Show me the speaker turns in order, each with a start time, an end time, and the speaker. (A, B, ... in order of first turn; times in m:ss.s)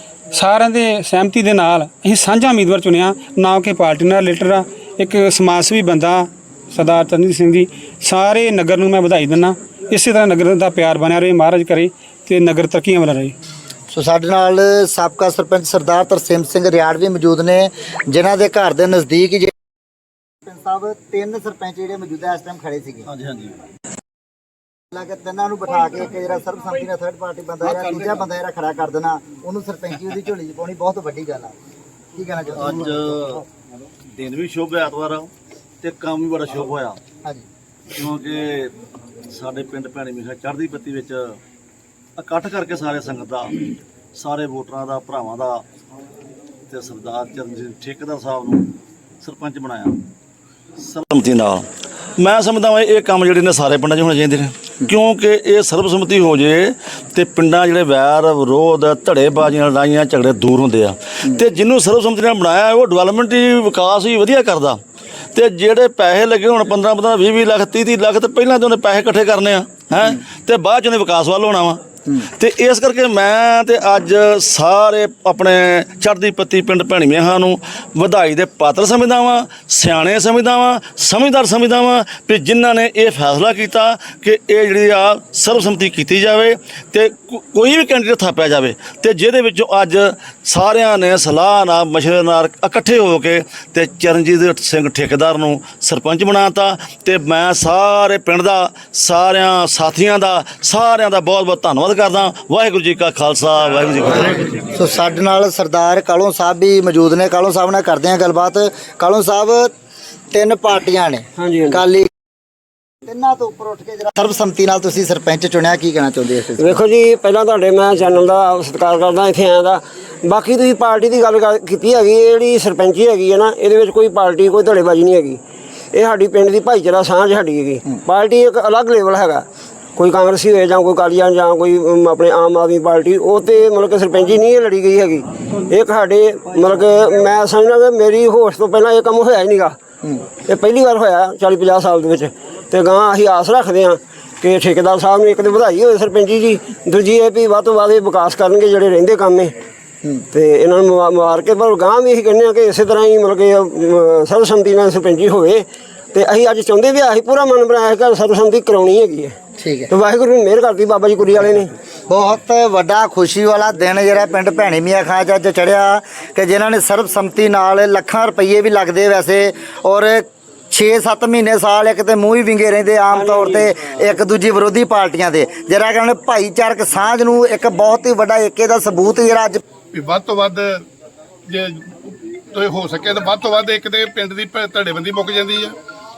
0:00.3-0:13.3 A
0:13.9-0:19.5 B
0:20.4-0:23.1 B
0:23.0-0:23.6 C
0:24.9-0:31.5 B
0:32.1-0:33.3 B
0:32.6-0:33.4 C
0:34.1-0:35.3 C
0:35.8-0:37.0 C
0:37.9-0:38.7 C
0:39.3-0:41.4 C
0:42.2-0:43.6 C
0:44.2-0:45.6 C
0:46.7-0:50.0 C
0:50.8-0:51.6 C
0:52.2-1:04.8 C
1:05.3-1:44.6 C
1:44.7-1:49.7 B
1:50.3-1:52.1 B
1:51.4-1:51.8 D
1:53.0-1:56.8 B
1:56.6-2:05.4 D
2:05.9-2:19.8 D
2:20.3-2:29.5 D
2:30.3-2:39.4 D
2:39.6-2:39.9 B
2:39.9-2:41.7 D
2:42.1-2:59.6 B
2:53.1-2:53.7 D
2:59.9-3:00.7 E
3:01.5-3:05.7 E